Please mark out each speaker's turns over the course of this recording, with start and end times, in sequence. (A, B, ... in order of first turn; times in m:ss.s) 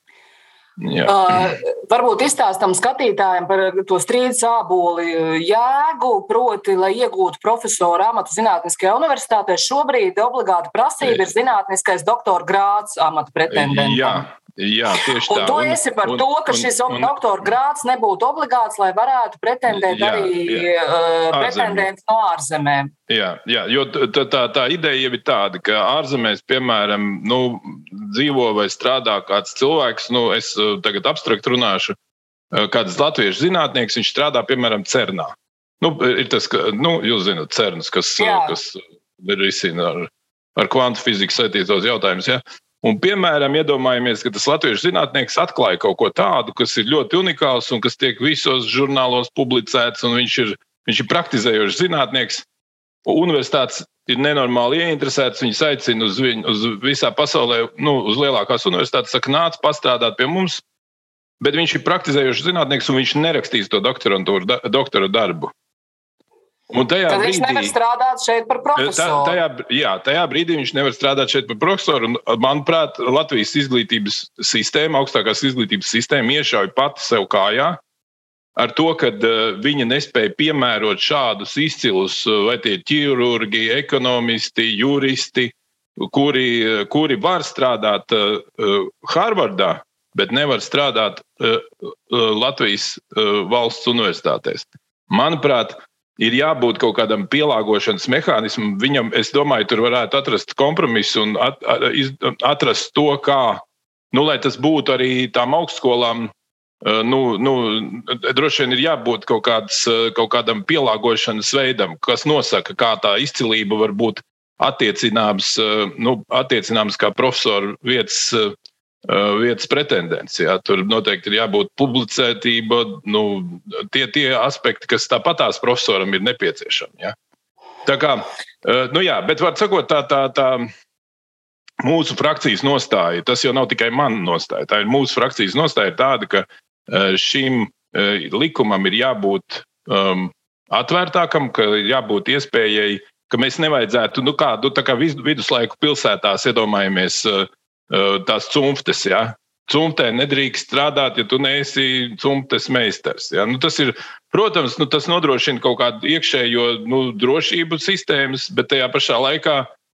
0:00.8-0:01.6 A
0:01.0-0:14.2 B
0:13.5-0:17.1 A
0:15.3-0:22.9 B
0:19.7-0:20.7 A
0:21.3-0:21.8 A
0:23.1-0:32.0 A
0:32.5-0:52.4 A
0:38.2-0:38.5 B
0:53.0-1:00.6 A
1:01.4-1:05.5 A
1:06.7-1:07.8 A
1:07.1-1:09.4 B
1:08.8-1:17.8 A
1:18.6-1:46.3 A
1:46.8-1:58.5 A
1:59.0-2:07.1 A
2:07.8-2:10.7 A
2:11.8-2:39.7 A